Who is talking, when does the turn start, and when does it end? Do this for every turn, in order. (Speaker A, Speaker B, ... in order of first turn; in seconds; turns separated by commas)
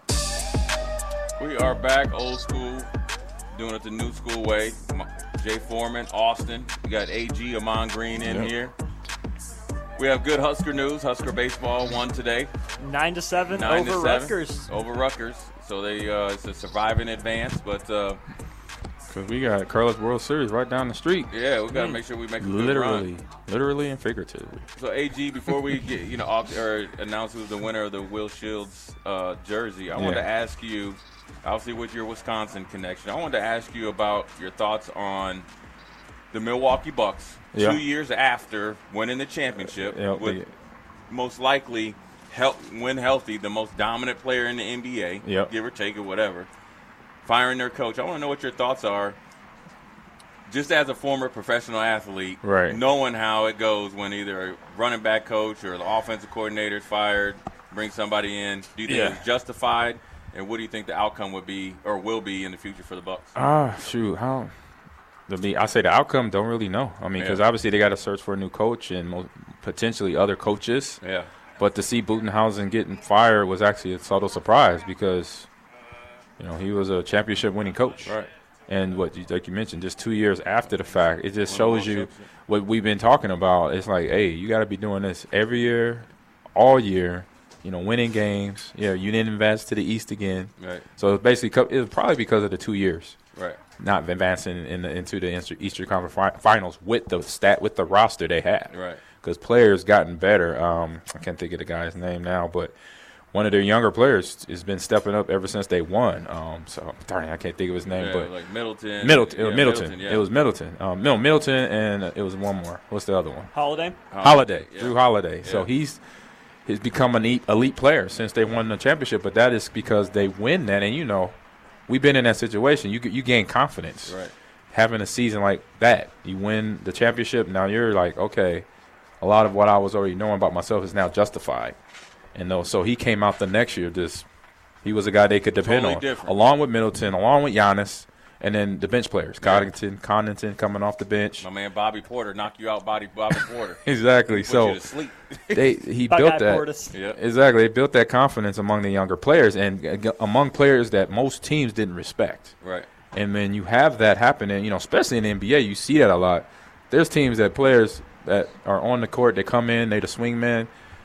Speaker A: 1.4-2.9, Speaker A: 3.5-8.7, Speaker B: 8.2-8.5, Speaker A: 9.9-12.5, Speaker C: 12.8-14.7, Speaker A: 13.5-18.2, Speaker B: 19.1-24.6, Speaker A: 21.3-23.1, Speaker A: 24.8-35.5, Speaker B: 29.9-30.2, Speaker A: 36.3-40.4, Speaker B: 37.5-37.8, Speaker B: 39.8-40.5, Speaker A: 41.1-46.5, Speaker B: 45.2-45.5, Speaker A: 47.2-49.2, Speaker A: 50.5-63.3, Speaker B: 52.4-52.8, Speaker B: 58.9-59.2, Speaker B: 63.3-64.5, Speaker B: 65.3-71.0, Speaker A: 67.2-67.4, Speaker A: 71.0-71.3, Speaker B: 71.6-75.5, Speaker B: 76.4-93.2, Speaker A: 78.0-78.3, Speaker A: 81.4-82.3, Speaker A: 90.6-90.8, Speaker A: 93.3-93.6, Speaker B: 93.8-102.7, Speaker A: 98.7-99.0, Speaker B: 103.3-108.3, Speaker A: 107.9-110.2, Speaker B: 109.0-113.5, Speaker C: 113.5-114.0, Speaker A: 114.1-115.7, Speaker B: 114.2-116.0, Speaker B: 116.7-121.3, Speaker B: 121.9-124.2, Speaker A: 124.0-124.3, Speaker B: 124.7-128.7, Speaker B: 129.2-131.8, Speaker B: 132.3-134.2, Speaker B: 134.8-141.5, Speaker A: 135.6-136.4, Speaker A: 139.4-139.7, Speaker A: 141.4-145.8, Speaker B: 143.8-144.8, Speaker B: 145.5-152.5, Speaker C: 146.1-146.9, Speaker A: 146.9-147.2, Speaker A: 152.6-152.9, Speaker B: 153.1-160.7